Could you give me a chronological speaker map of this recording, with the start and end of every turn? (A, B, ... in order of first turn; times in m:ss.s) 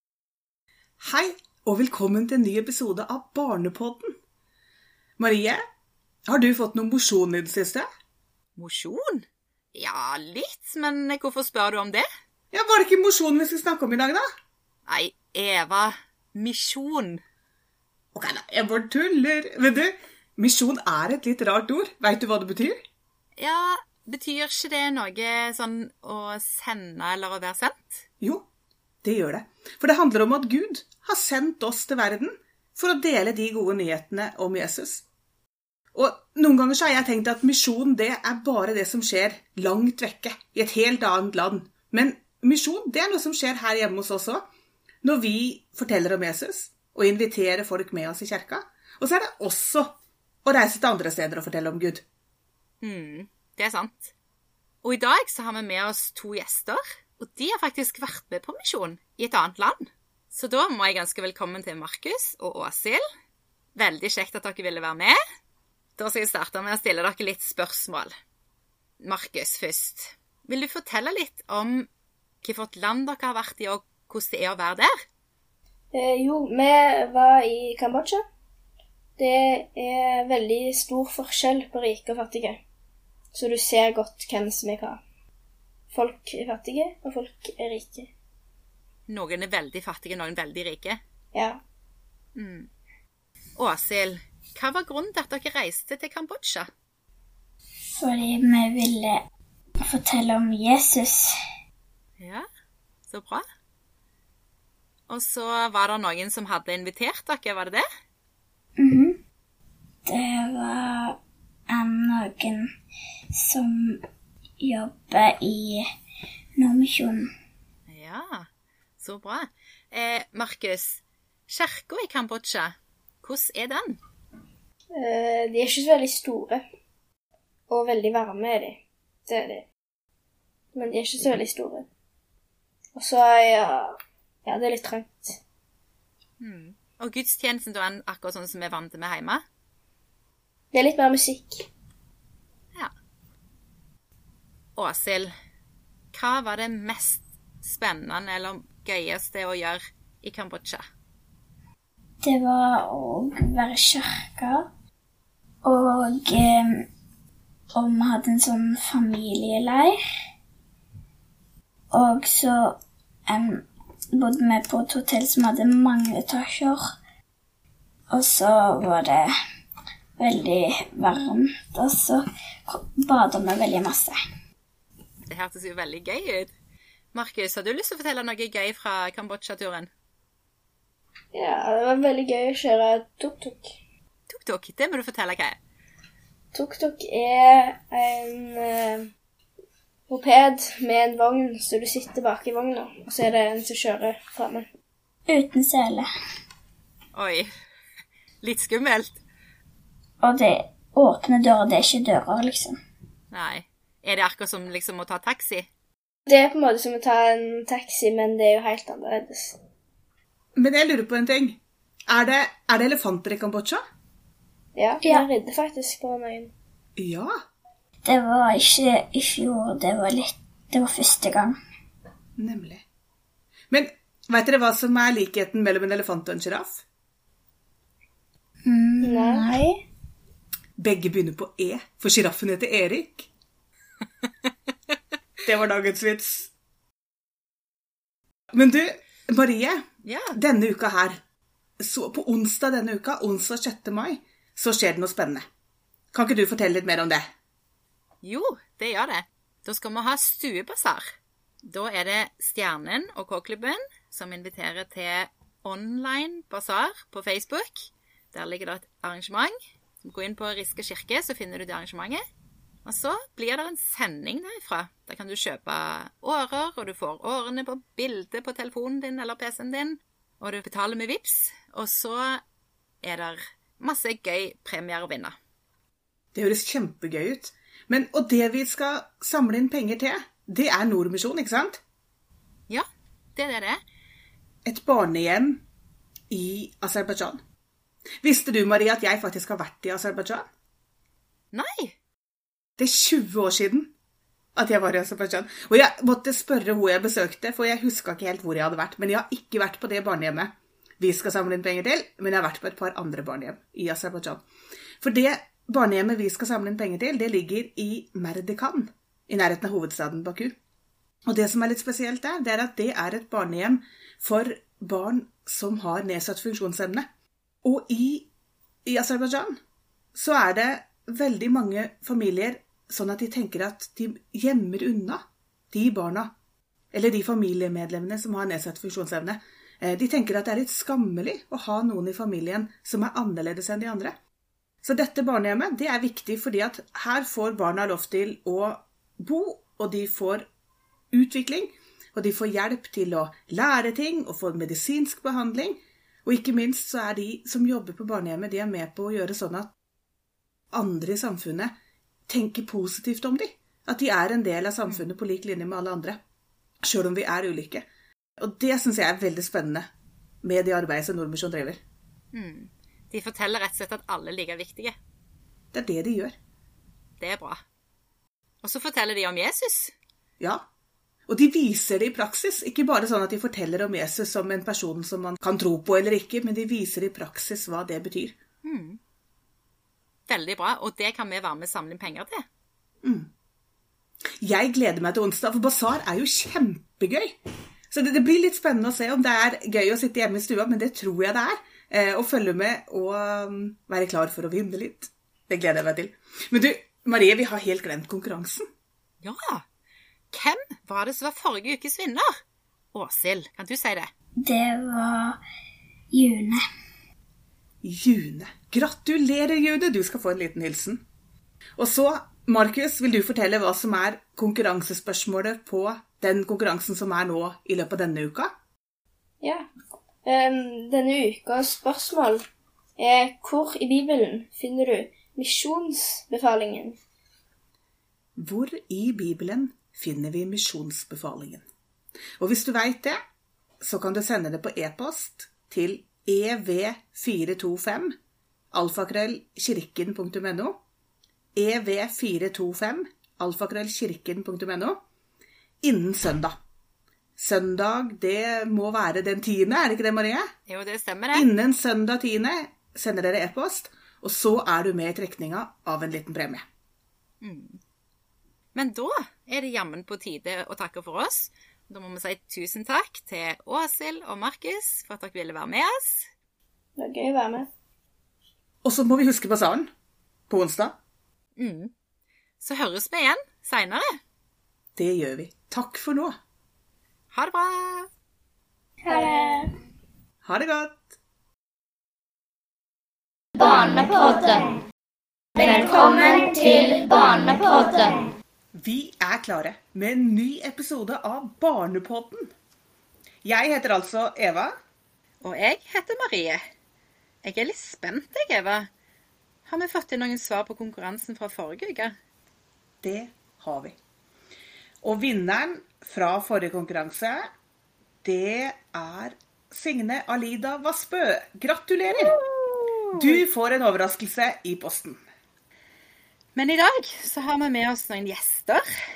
0:01.0-0:04.1 A
0:05.2-0:05.6 A
0:06.3-0:07.9 A
0:08.6-0:12.1 B
0:12.5-0:14.2 A
0:14.9-0:17.2 B
0:18.1-0:22.8 A
0:23.4-0:28.0 B
0:28.2-0:28.4 A
0:29.0-0:35.0 A
0:35.9-0:44.4 A
0:45.0-0:49.9 A
0:50.4-0:52.0 A
0:52.8-0:54.1 B
0:54.8-1:03.0 B
1:03.8-1:05.2 B
1:06.0-1:08.1 B
1:09.0-1:11.9 B
1:12.4-1:14.9 B
1:15.9-1:18.2 C
1:19.2-1:22.6 C
1:23.3-1:25.0 C
1:25.9-1:28.1 C
1:29.1-1:31.0 B
1:31.3-1:31.6 C
1:32.4-1:32.7 B
1:33.6-1:36.7 B
1:38.0-1:39.2 D
1:39.8-1:41.3 D
1:42.2-1:42.4 B
1:43.1-1:43.4 B
1:45.1-1:47.8 B
1:48.8-1:49.2 D
1:50.0-1:51.2 D
1:51.7-1:52.7 D
1:53.3-1:54.0 D
1:54.6-1:55.8 D
1:56.6-1:57.3 D
1:57.9-1:58.5 B
1:59.0-2:04.0 B
2:04.9-2:06.6 C
2:07.7-2:09.6 C
2:10.7-2:11.9 C
2:12.9-2:15.4 C
2:16.4-2:19.4 B
2:20.7-2:21.7 C
2:24.8-2:25.3 B
2:26.1-2:30.8 B
2:32.2-2:34.6 D
2:35.6-2:36.8 D
2:37.7-2:40.0 D
2:41.9-2:46.9 D
2:48.1-2:49.3 D
2:50.2-2:54.2 D
2:55.2-2:56.5 B
2:57.1-2:59.9 B
3:01.3-3:03.7 C
3:04.3-3:05.6 B
3:06.5-3:09.1 C
3:10.1-3:14.7 C
3:15.3-3:16.1 D
3:17.1-3:17.5 B
3:18.4-3:19.2 B
3:20.2-3:22.8 D
3:23.3-3:25.7 B
3:26.2-3:29.6 C
3:30.6-3:33.8 A
3:34.7-3:36.5 C
3:35.0-3:35.3 D
3:37.0-3:37.3 A
3:38.0-3:41.6 D
3:42.4-3:42.8 A
3:43.7-3:46.8 A
3:48.6-3:49.8 D
3:49.0-3:49.5 C
3:50.8-3:53.3 A
3:55.4-3:56.5 A
3:58.5-3:59.8 A
4:00.0-4:00.4 B
4:00.3-4:01.2 A
4:01.8-4:05.4 A
4:06.1-4:07.3 A
4:08.2-4:11.1 B
4:11.6-4:22.2 B
4:22.8-4:32.4 B
4:33.0-4:35.4 B
4:36.3-4:41.8 A
4:42.7-4:43.8 B
4:44.6-4:45.6 A
4:46.3-4:47.4 A
4:48.2-4:50.5 A
4:51.5-4:52.0 B
4:52.8-4:53.9 A
4:54.6-5:04.4 A
5:05.0-5:10.5 A
5:11.3-5:17.1 A
5:17.6-5:18.3 A
5:18.8-5:19.6 A
5:20.1-5:26.3 A
5:26.9-5:34.2 A
5:34.8-5:40.5 A
5:41.1-5:49.7 A
5:50.7-5:51.7 A
5:52.3-5:56.2 A
5:56.8-5:57.8 A
5:58.4-5:59.9 A
6:00.4-6:01.8 A
6:02.3-6:05.0 B
6:05.7-6:06.3 A
6:07.2-6:07.6 B
6:08.6-6:09.9 B
6:10.4-6:10.6 A
6:11.3-6:18.4 A
6:18.6-6:19.0 B
6:20.3-6:22.4 B
6:23.0-6:23.3 A
6:24.4-6:27.4 A
6:27.9-6:38.6 A
6:39.2-6:39.6 B
6:40.3-6:42.3 B
6:42.9-6:44.1 B
6:44.4-6:45.4 D
6:46.1-6:46.6 D
6:47.8-6:51.0 A
6:51.8-6:58.5 A
6:59.4-6:59.7 C
7:00.2-7:02.4 C
7:03.0-7:07.0 C
7:08.4-7:11.6 A
7:12.4-7:13.2 A
7:13.8-7:18.1 A
7:18.7-7:20.8 A
7:21.6-7:25.0 A
7:25.8-7:26.5 A
7:27.4-7:30.5 A
7:30.7-7:31.5 B
7:31.3-7:36.6 A
7:37.4-7:37.8 B
7:38.7-7:46.3 B
7:47.0-7:47.7 C
7:48.8-7:49.9 A
7:50.5-7:51.0 A
7:51.6-7:51.9 B
7:52.6-7:54.0 B
7:55.0-7:56.3 A
7:57.3-7:58.1 B
7:59.1-7:59.6 D
8:00.4-8:01.1 A
8:03.6-8:04.7 E
8:05.6-8:08.3 E
8:06.0-8:06.5 D
8:08.7-8:12.5 A
8:13.4-8:14.8 A
8:15.4-8:16.6 B
8:17.4-8:18.9 B
8:19.6-8:22.1 B
8:23.0-8:23.9 A
8:25.0-8:27.5 A
8:28.2-8:32.3 A
8:33.1-8:35.2 A
8:36.5-8:38.8 B